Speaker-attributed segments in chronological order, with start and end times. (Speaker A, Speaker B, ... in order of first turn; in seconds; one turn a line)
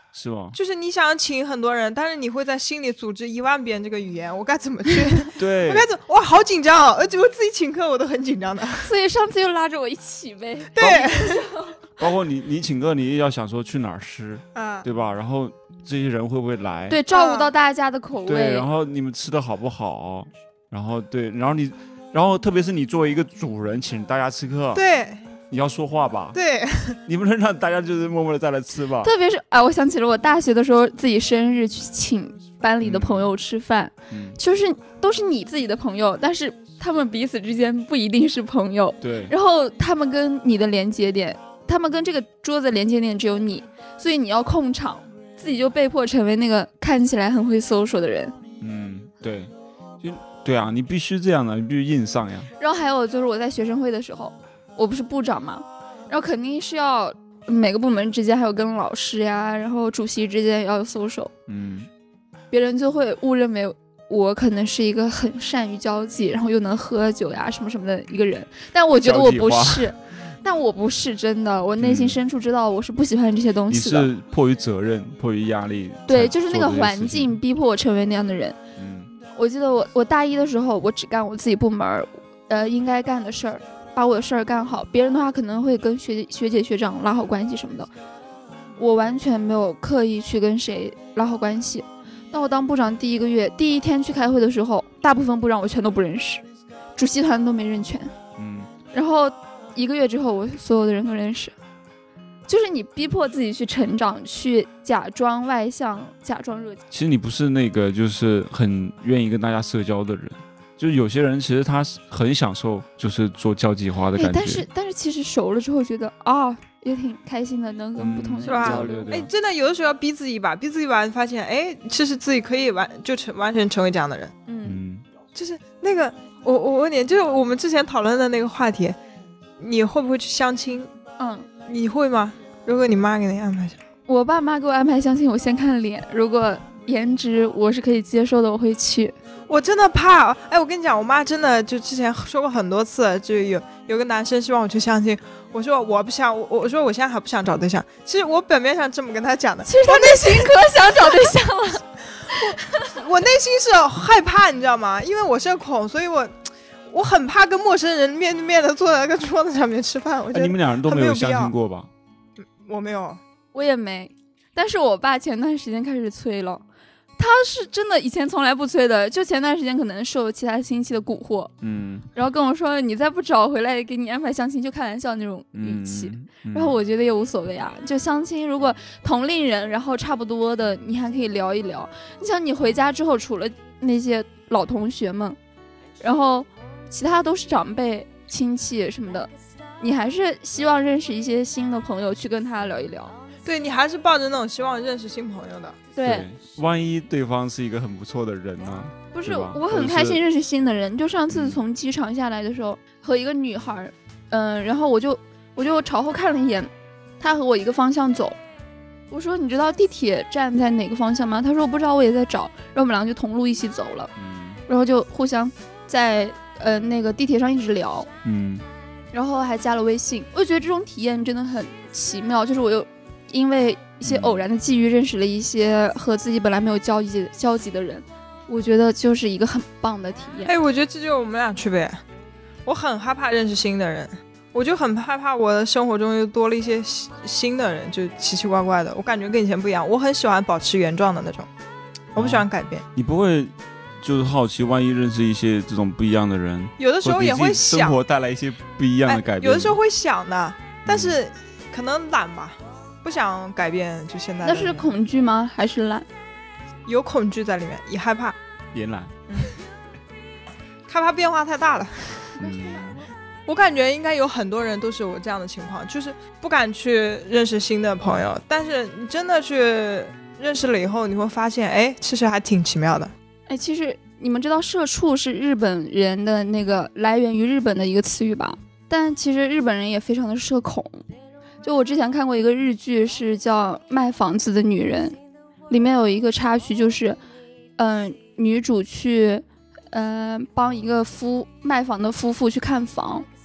Speaker A: 0.1-0.6
Speaker B: 0.5-8.9
Speaker A: 5.4-5.9
Speaker C: 8.8-11.8
Speaker B: 10.8-11.5
Speaker A: 12.0-17.0
Speaker B: 14.6-14.8
Speaker C: 16.9-18.7
Speaker B: 17.1-17.5
Speaker A: 18.3-24.8
Speaker B: 24.7-25.2
Speaker A: 25.5-26.4
Speaker B: 26.3-27.0
Speaker A: 27.1-29.1
Speaker C: 29.0-48.4
Speaker A: 32.8-33.3
Speaker A: 34.1-34.4
Speaker A: 39.0-39.3
Speaker A: 48.6-52.5
Speaker C: 52.6-61.3
Speaker A: 61.5-61.9
Speaker C: 62.5-74.1
Speaker A: 69.0-69.9
Speaker A: 71.8-72.2
Speaker A: 73.7-77.4
Speaker C: 76.1-78.6
Speaker A: 78.8-79.1
Speaker C: 79.3-87.9
Speaker C: 88.8-96.4
Speaker C: 97.0-98.1
Speaker A: 98.4-98.7
Speaker C: 98.9-101.5
Speaker C: 102.5-106.8
Speaker A: 106.9-114.7
Speaker C: 114.2-119.1
Speaker A: 118.0-119.3
Speaker B: 118.5-124.3
Speaker C: 124.5-124.8
Speaker A: 124.6-125.0
Speaker B: 125.3-129.0
Speaker B: 129.6-130.9
Speaker C: 131.2-131.5
Speaker B: 131.7-133.8
Speaker C: 134.1-139.2
Speaker B: 139.5-151.1
Speaker C: 149.7-152.9
Speaker B: 152.3-156.3
Speaker B: 156.9-161.5
Speaker A: 160.3-161.9
Speaker B: 162.5-163.2
Speaker C: 163.5-166.6
Speaker C: 167.2-171.5
Speaker A: 171.6-172.1
Speaker C: 172.1-185.4
Speaker A: 175.5-176.8
Speaker C: 186.0-193.2
Speaker B: 193.4-195.8
Speaker C: 196.0-196.3
Speaker A: 196.0-200.2
Speaker C: 199.1-208.4
Speaker A: 201.3-201.6
Speaker C: 209.1-214.1
Speaker A: 214.2-214.6
Speaker C: 214.7-218.1
Speaker A: 218.2-218.7
Speaker C: 219.1-230.6
Speaker A: 224.1-224.4
Speaker B: 230.5-232.0
Speaker B: 232.7-241.5
Speaker B: 242.1-242.8
Speaker A: 242.2-249.8
Speaker B: 246.8-248.0
Speaker B: 249.1-254.9
Speaker A: 250.9-251.2
Speaker C: 254.4-256.1
Speaker B: 256.9-258.4
Speaker A: 258.7-259.1
Speaker B: 260.9-262.4
Speaker A: 262.4-263.0
Speaker B: 263.5-273.1
Speaker C: 273.5-281.0
Speaker C: 281.6-285.2
Speaker C: 285.7-287.2
Speaker C: 287.8-293.3